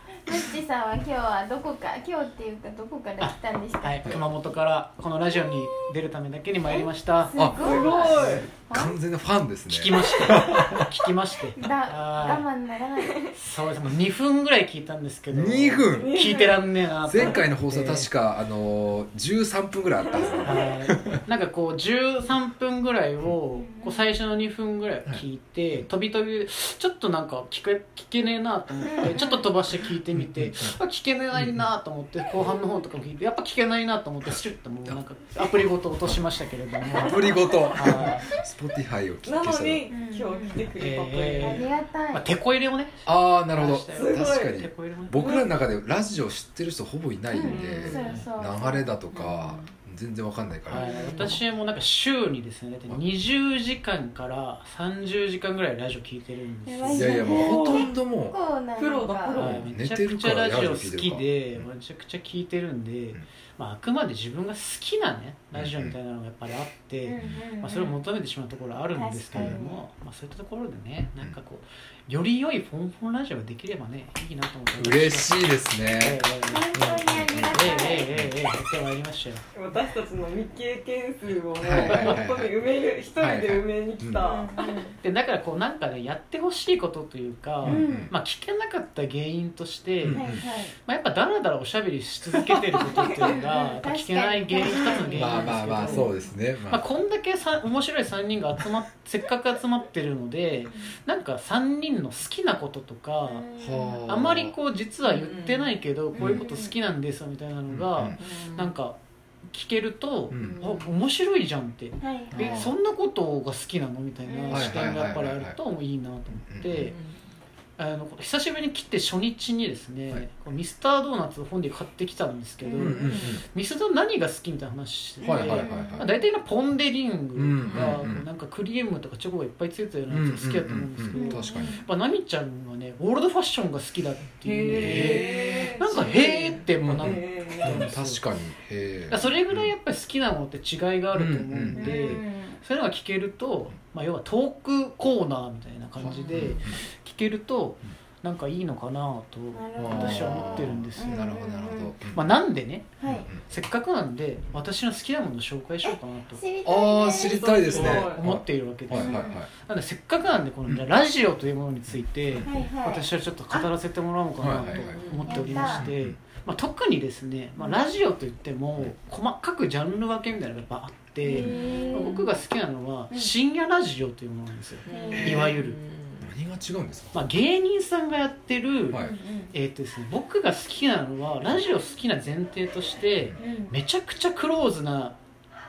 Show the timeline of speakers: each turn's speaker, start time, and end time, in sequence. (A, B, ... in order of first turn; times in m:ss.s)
0:00.2-0:04.2 A
0:03.2-0:07.4 B
0:06.7-0:09.0 A
0:07.3-0:10.8 C
0:07.6-0:08.5 D
0:08.0-0:08.4 B
0:09.7-0:12.5 B
0:11.5-0:13.3 A
0:13.3-0:18.1 B
0:15.3-0:16.2 C
0:15.9-0:17.4 D
0:17.1-0:21.2 C
0:20.1-0:20.4 D
0:20.4-0:38.3 B
0:23.5-0:24.0 A
0:28.8-0:29.4 A
0:29.0-0:29.4 D
0:30.1-0:30.7 C
0:31.4-0:31.7 C
0:36.9-0:39.8 C
0:37.2-0:38.1 D
0:39.2-0:41.7 D
0:39.9-0:40.6 A
0:40.8-0:45.4 B
0:41.4-0:42.2 A
0:43.0-0:51.3 C
0:43.9-0:44.6 D
0:45.1-0:45.5 D
0:47.3-0:48.9 A
0:47.4-0:48.2 D
0:47.9-0:48.3 B
0:49.1-0:49.7 D
0:50.7-0:57.3 B
0:50.7-0:51.4 D
0:56.7-0:59.4 A
0:56.9-0:58.4 C
0:57.2-0:57.9 D
0:58.8-0:59.7 D
0:59.3-1:19.4 B
0:59.4-1:01.3 C
1:05.5-1:05.9 C
1:07.0-1:07.9 A
1:08.9-1:09.8 A
1:14.8-1:16.2 C
1:16.4-1:18.1 A
1:16.7-1:18.3 C
1:19.5-1:24.8 D
1:21.6-1:22.6 C
1:21.8-1:22.2 B
1:23.2-1:24.2 C
1:24.2-1:25.0 A
1:25.0-1:36.1 B
1:27.6-1:28.1 A
1:27.6-1:28.1 C
1:30.0-1:30.4 C
1:30.1-1:30.7 A
1:32.7-1:33.6 D
1:33.0-1:36.1 A
1:35.1-1:36.8 C
1:36.7-1:43.5 B
1:43.3-1:43.7 A
1:43.6-1:44.5 C
1:44.1-1:57.0 B
1:45.0-1:45.7 D
1:46.2-1:46.7 A
1:46.2-1:46.4 C
1:47.7-1:48.2 C
1:48.2-1:48.7 D
1:50.3-1:50.6 C
1:50.4-1:50.9 D
1:52.0-1:52.6 A
1:52.3-1:52.7 C
1:54.3-1:54.7 A
1:54.5-1:55.6 C
1:56.5-1:56.9 C
1:56.7-1:57.1 D
1:57.8-2:18.2 B
2:02.6-2:03.3 A
2:02.8-2:03.4 C
2:05.2-2:06.1 C
2:05.2-2:06.2 A
2:07.3-2:08.2 C
2:07.7-2:08.0 D
2:10.1-2:11.8 C
2:11.1-2:11.8 A
2:14.4-2:17.8 D
2:14.7-2:15.7 C
2:16.8-2:19.7 C
2:19.1-2:31.3 B
2:21.1-2:22.2 C
2:21.8-2:22.6 A
2:26.0-2:26.8 C
2:26.1-2:26.6 D
2:29.5-2:31.9 A
2:29.8-2:32.2 C
2:32.1-2:36.4 B
2:33.0-2:33.3 A
2:33.0-2:33.4 C
2:35.8-2:37.9 A
2:36.6-2:39.5 C
2:36.9-2:38.2 D
2:37.7-2:55.8 B
2:38.9-2:39.4 A
2:42.4-2:43.7 A
2:44.4-2:46.2 C
2:44.7-2:45.6 D
2:45.2-2:45.9 A
2:51.2-2:52.3 A
2:51.2-2:52.3 D
2:54.8-2:56.3 D
2:54.9-2:55.5 A
2:55.1-2:55.5 C
2:56.2-2:57.2 C
2:57.1-3:05.2 B
2:58.9-2:59.2 C
2:59.0-2:59.5 A
3:03.4-3:03.7 A